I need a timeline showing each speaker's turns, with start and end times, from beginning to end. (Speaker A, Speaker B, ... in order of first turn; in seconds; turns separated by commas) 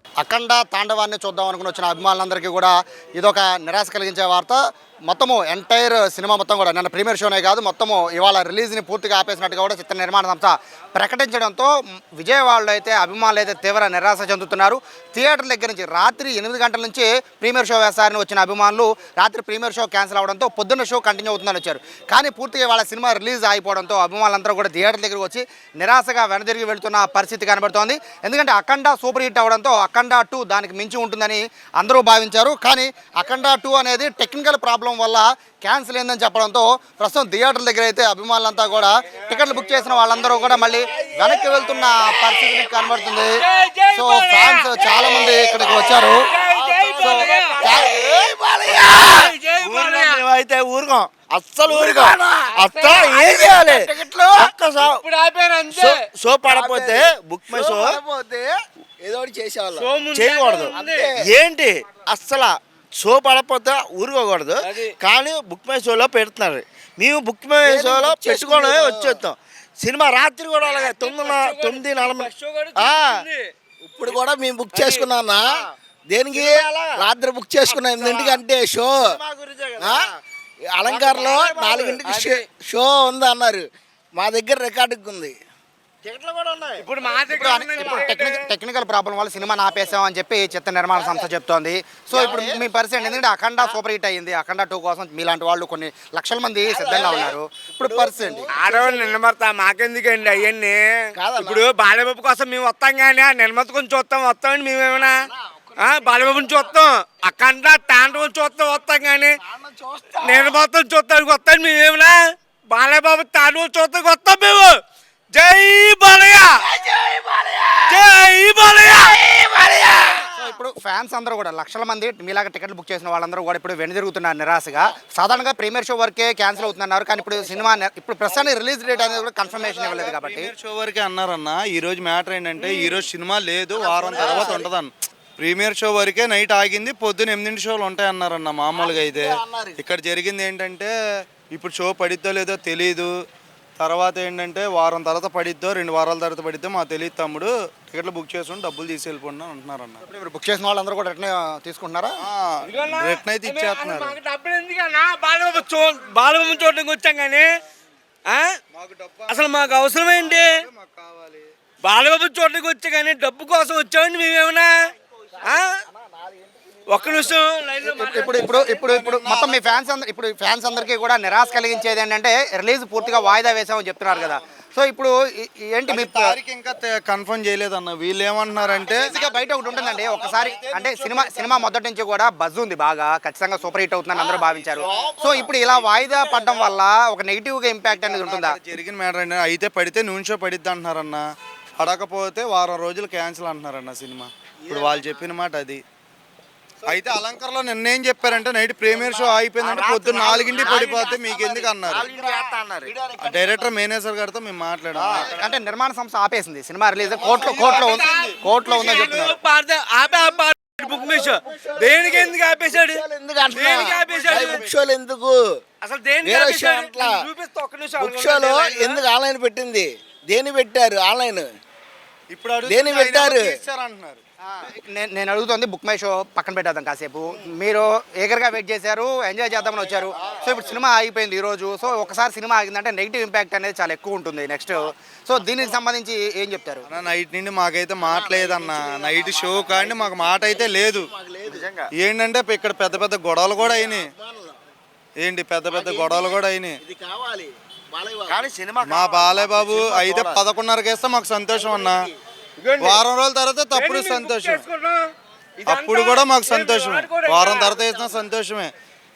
Speaker A: 0.2-43.4, Speaker B: 43.4-47.8, Speaker A: 43.9-46.3, Speaker C: 45.2-45.9, Speaker C: 46.5-49.0, Speaker A: 47.0-47.3, Speaker D: 48.7-55.0, Speaker B: 48.7-50.2, Speaker C: 51.7-54.6, Speaker B: 52.5-53.5, Speaker B: 54.8-56.0, Speaker D: 55.7-58.0, Speaker C: 56.4-59.9, Speaker B: 59.8-61.1, Speaker D: 60.1-73.2, Speaker C: 60.7-61.3, Speaker B: 64.6-65.0, Speaker C: 67.6-69.2, Speaker B: 70.6-73.5, Speaker C: 73.9-75.6, Speaker B: 74.7-75.1, Speaker C: 76.1-79.2, Speaker D: 76.3-77.0, Speaker D: 77.6-78.4, Speaker D: 79.0-80.0, Speaker C: 79.8-80.1, Speaker C: 80.8-85.4, Speaker D: 80.8-82.0, Speaker B: 82.0-82.4, Speaker D: 86.0-86.8, Speaker B: 86.8-88.5, Speaker A: 87.3-98.5, Speaker C: 91.0-91.3, Speaker C: 92.1-92.6, Speaker C: 96.7-99.2, Speaker B: 98.5-105.2, Speaker C: 101.2-101.7, Speaker C: 105.0-106.7, Speaker B: 105.8-109.3, Speaker C: 109.4-110.6, Speaker B: 110.2-114.8, Speaker B: 115.3-116.7, Speaker C: 116.7-117.8, Speaker B: 117.9-120.3, Speaker A: 120.4-130.5, Speaker C: 127.3-127.7, Speaker E: 129.6-140.9, Speaker C: 133.7-134.7, Speaker C: 138.7-139.8, Speaker E: 141.5-143.1, Speaker E: 143.8-150.0, Speaker A: 150.1-152.2, Speaker E: 152.2-154.2, Speaker B: 152.6-157.5, Speaker B: 158.3-158.6, Speaker E: 158.7-161.5, Speaker B: 159.3-160.5, Speaker B: 161.8-164.8, Speaker C: 165.4-167.5, Speaker B: 165.4-165.8, Speaker B: 166.9-168.9, Speaker A: 167.8-176.4, Speaker E: 168.3-169.6, Speaker C: 173.1-173.4, Speaker E: 175.9-179.2, Speaker A: 179.1-188.6, Speaker E: 180.7-181.6, Speaker C: 184.3-185.5, Speaker E: 184.8-185.1, Speaker E: 185.7-186.7, Speaker E: 187.9-191.2, Speaker E: 191.8-195.8, Speaker C: 194.7-195.3, Speaker E: 196.8-202.1, Speaker C: 198.9-199.3, Speaker D: 198.9-202.9, Speaker C: 200.6-200.8, Speaker C: 201.9-203.7, Speaker E: 203.2-205.4, Speaker A: 205.3-209.4, Speaker C: 207.2-207.4, Speaker E: 207.4-209.3, Speaker B: 207.6-214.6, Speaker C: 210.8-215.6, Speaker E: 213.8-214.8, Speaker B: 215.8-219.0, Speaker C: 216.2-217.3, Speaker C: 218.0-221.5, Speaker E: 222.3-224.2, Speaker C: 222.6-223.6, Speaker A: 224.7-236.8, Speaker E: 236.9-241.1, Speaker C: 238.0-241.7, Speaker D: 241.5-241.9, Speaker E: 242.0-244.1, Speaker C: 243.6-244.6, Speaker E: 245.2-246.8, Speaker C: 245.7-248.5, Speaker D: 248.3-250.4, Speaker E: 248.8-252.1, Speaker C: 251.5-252.1, Speaker B: 252.6-253.0, Speaker E: 252.8-254.7, Speaker B: 253.7-255.1, Speaker B: 255.6-257.8, Speaker E: 255.7-258.7, Speaker C: 257.5-258.3